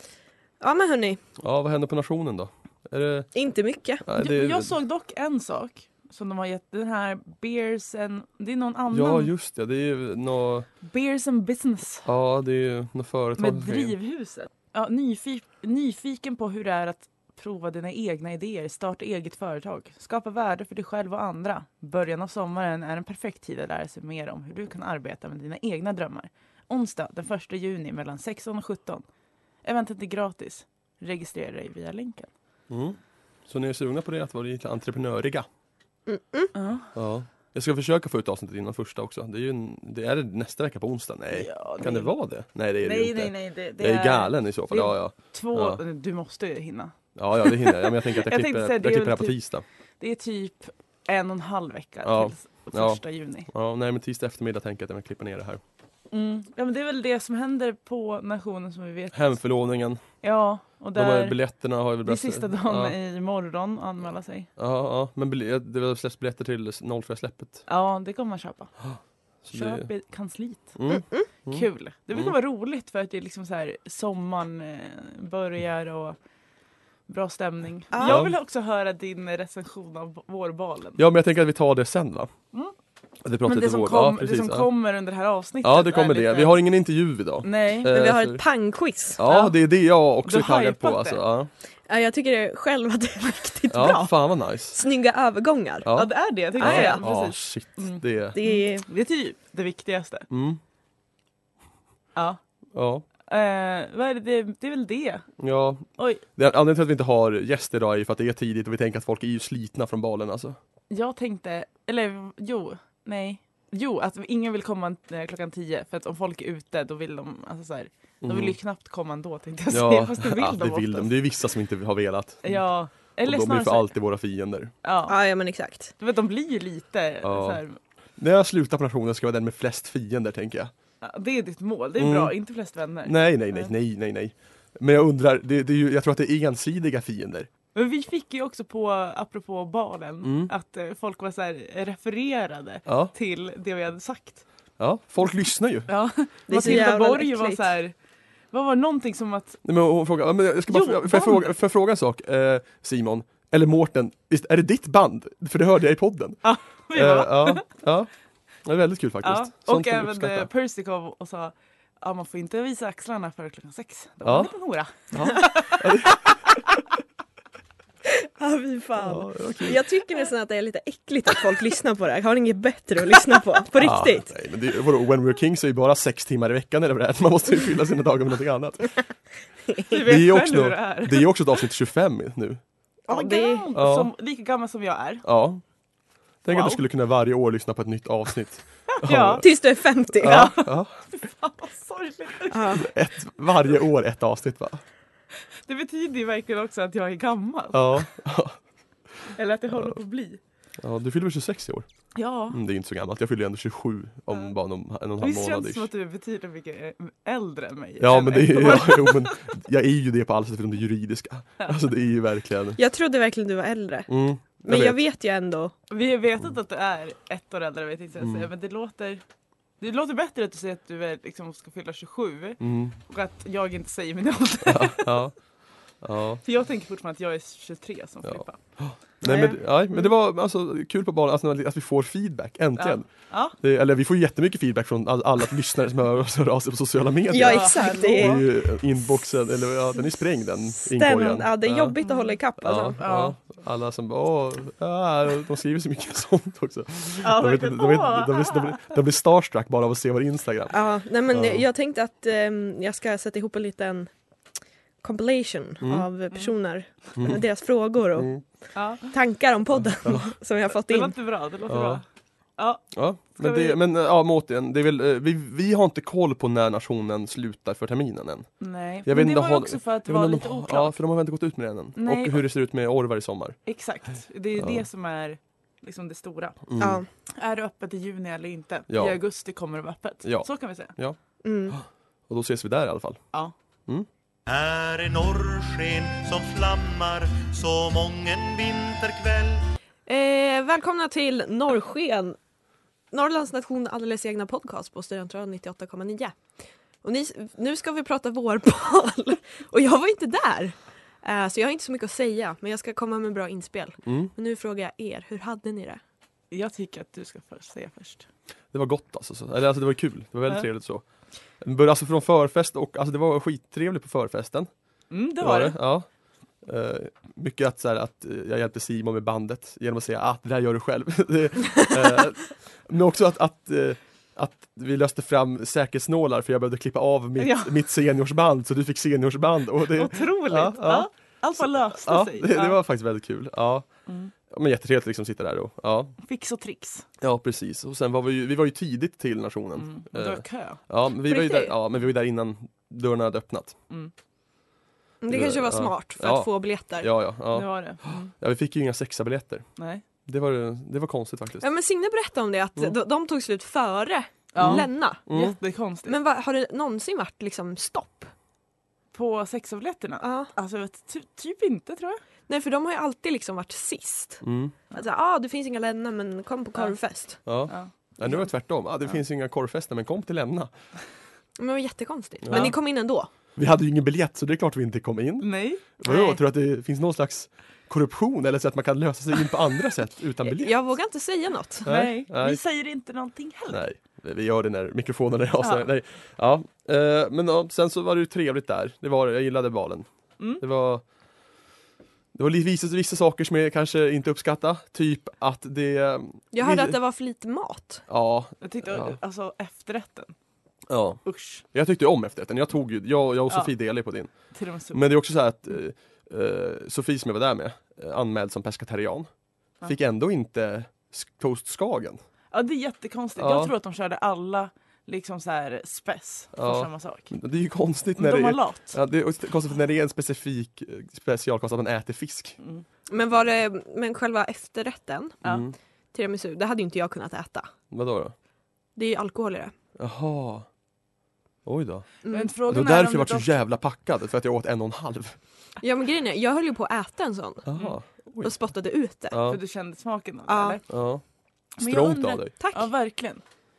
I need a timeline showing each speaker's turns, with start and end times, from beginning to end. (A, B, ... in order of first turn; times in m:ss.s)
0:00.6-0:01.2 A
0:01.4-0:03.3 B
0:03.3-0:04.0 A
0:04.0-0:04.7 B
0:04.1-0:09.3 C
0:08.9-0:10.7 B
0:10.8-0:12.1 C
0:12.0-0:14.0 B
0:13.4-0:29.0 C
0:29.6-0:32.3 C
0:32.7-0:35.5 B
0:36.1-0:36.5 A
0:36.5-0:36.9 C
0:36.9-0:45.8 B
0:41.3-0:42.2 C
0:42.8-0:49.4 C
0:47.1-0:49.6 B
0:50.0-0:53.5 C
0:52.0-0:55.6 B
0:56.1-0:59.4 C
0:59.1-1:00.0 B
1:00.2-1:01.4 C
1:00.9-1:03.0 B
1:02.0-1:04.5 C
1:04.6-1:07.6 B
1:07.7-1:08.7 C
1:08.8-1:09.9 B
1:09.5-1:10.7 C
1:10.7-1:12.3 B
1:10.9-1:11.3 A
1:11.5-1:16.2 C
1:17.1-1:21.0 C
1:17.9-1:18.3 A
1:18.0-1:18.4 B
1:21.0-1:22.3 B
1:23.2-1:24.7 B
1:23.4-1:26.6 C
1:25.6-1:28.4 B
1:27.4-1:27.9 C
1:27.8-1:29.2 A
1:29.2-1:31.5 B
1:29.2-1:29.5 C
1:30.2-1:31.2 C
1:31.9-1:36.0 A
1:33.7-1:34.8 B
1:35.8-1:38.4 B
1:35.9-1:40.3 C
1:36.6-1:37.1 A
1:38.3-1:38.8 A
1:40.3-1:40.6 B
1:42.1-1:42.4 C
1:42.7-1:43.0 B
1:43.3-1:45.2 C
1:45.4-1:50.6 B
1:46.0-1:46.2 C
1:50.9-2:01.1 C
1:58.2-1:58.6 B
1:59.7-2:02.6 B
2:02.4-2:03.9 C
2:03.2-2:04.7 B
2:04.8-2:05.2 C
2:05.1-2:05.9 A
2:06.0-2:07.8 C
2:07.2-2:07.6 B
2:08.2-2:10.7 B
2:11.0-2:13.7 C
2:12.0-2:12.3 B
2:13.0-2:17.5 B
2:17.7-2:24.4 C
2:20.2-2:20.5 B
2:22.8-2:23.1 B
2:24.8-2:25.9 B
2:25.9-2:27.9 C
2:26.5-2:27.7 A
2:28.5-2:29.6 C
2:29.6-2:38.1 B
2:30.7-2:31.5 C
2:36.4-2:37.6 C
2:38.6-2:40.5 B
2:39.2-2:46.7 C
2:44.2-2:44.5 B
2:45.1-2:46.6 B
2:48.0-2:54.3 A
2:49.0-2:49.8 B
2:53.7-2:59.0 B
2:59.8-3:01.4 C
3:00.0-3:02.6 B
3:03.1-3:03.7 A
3:03.1-3:05.2 C
3:03.7-3:04.1 B
3:05.2-3:05.6 B
3:06.4-3:09.6 B
3:06.5-3:06.8 C
3:08.9-3:09.5 C
3:09.4-3:10.7 A
3:10.1-3:10.9 B
3:11.0-3:12.9 C
3:12.5-3:12.9 A
3:12.8-3:14.8 B
3:15.6-3:18.1 C
3:17.7-3:18.6 B
3:19.3-3:20.4 C
3:20.8-3:21.9 B
3:22.1-3:22.6 C
3:22.5-3:25.9 B
3:25.2-3:29.4 C
3:28.0-3:32.8 B
3:32.8-3:35.7 A
3:34.1-3:35.0 B
3:35.9-3:39.2 C
3:38.2-3:38.5 B
3:39.8-3:45.2 C
3:42.6-3:43.0 B
3:44.7-3:45.3 B
3:46.0-3:46.4 B
3:46.4-3:48.6 C
3:48.2-4:02.0 B
3:49.2-3:49.6 A
3:49.2-3:49.5 C
3:52.8-3:53.6 C
3:57.3-3:58.9 A
3:57.3-3:58.4 C
4:00.7-4:03.0 A
4:02.0-4:02.4 C
4:02.6-4:10.8 B
4:03.0-4:03.4 C
4:07.2-4:08.9 C
4:10.7-4:14.1 A
4:11.3-4:11.6 B
4:15.0-4:18.4 A
4:15.8-4:16.1 B
4:17.2-4:17.4 B
4:18.1-4:18.4 B
4:18.7-4:19.1 C
4:19.0-4:21.1 A
4:20.0-4:20.3 B
4:20.7-4:22.0 C
4:21.6-4:22.0 B
4:22.6-4:23.8 C
4:22.9-4:28.5 B
4:28.6-4:31.0 C
4:29.0-4:33.6 B
4:32.0-4:32.4 C
4:33.6-4:36.6 C
4:34.6-4:34.8 B
4:36.7-4:37.0 B
4:36.8-4:37.1 A
4:37.3-4:40.9 C
4:38.9-4:39.2 B
4:40.2-4:41.2 B
4:41.4-4:41.8 A
4:41.7-4:43.2 B
4:44.5-4:49.6 D
4:50.0-4:52.4 A
4:53.1-4:56.4 A
4:57.0-5:06.0 A
5:04.0-5:04.3 B
5:06.5-5:08.3 C
5:08.7-5:11.0 B
5:11.6-5:14.7 B
5:15.1-5:15.8 C
5:15.4-5:16.1 B
5:16.6-5:33.9 B
5:27.4-5:27.7 C
5:29.9-5:32.8 C
5:34.1-5:34.3 C
5:34.5-5:36.2 B
5:36.2-5:37.0 C
5:37.2-5:43.8 B
5:39.8-5:40.8 C
5:41.2-5:41.7 A
5:45.2-5:47.1 A
5:45.3-5:49.6 B
5:47.5-5:48.3 C
5:49.8-5:50.0 C
5:50.2-5:51.7 B
5:51.6-5:55.3 A
5:54.5-5:56.2 C
5:54.6-5:55.6 B
5:56.0-5:58.3 A
5:59.1-6:02.2 C
6:00.2-6:00.5 A
6:02.5-6:07.4 A
6:04.4-6:04.8 B
6:07.4-6:10.7 B
6:07.7-6:08.4 C
6:11.6-6:13.3 A
6:12.4-6:12.8 B
6:13.6-6:20.8 B
6:15.4-6:16.4 C
6:20.4-6:21.9 A
6:21.8-6:22.6 B
6:21.8-6:23.9 C
6:23.7-6:30.1 B
6:25.6-6:25.9 C
6:30.6-6:31.0 B
6:32.3-6:37.0 B
6:36.5-6:38.0 A
6:38.1-6:39.2 B
6:38.6-6:40.3 C
6:40.9-6:44.3 B
6:41.2-6:41.6 C
6:44.5-6:45.0 C
6:44.9-6:49.3 B
6:49.8-6:52.2 B
6:52.5-6:57.3 C
6:53.4-6:53.7 B
6:56.5-7:02.6 B
6:58.2-6:59.0 C
7:02.6-7:02.8 C
7:03.1-7:05.4 A
7:05.4-7:05.7 B
7:06.1-7:07.7 A
7:07.9-7:08.3 B
7:09.0-7:09.7 A
7:10.0-7:10.7 B
7:11.6-7:12.1 B
7:12.2-7:12.5 A
7:12.3-7:13.5 C
7:12.6-7:15.4 B
7:15.8-7:17.7 A
7:17.6-7:18.6 B
7:18.4-7:19.5 A
7:19.3-7:19.6 B
7:19.4-7:20.8 C
7:20.5-7:20.8 A
7:20.9-7:21.2 B
7:21.8-7:22.5 B
7:21.8-7:23.4 C
7:22.6-7:22.9 A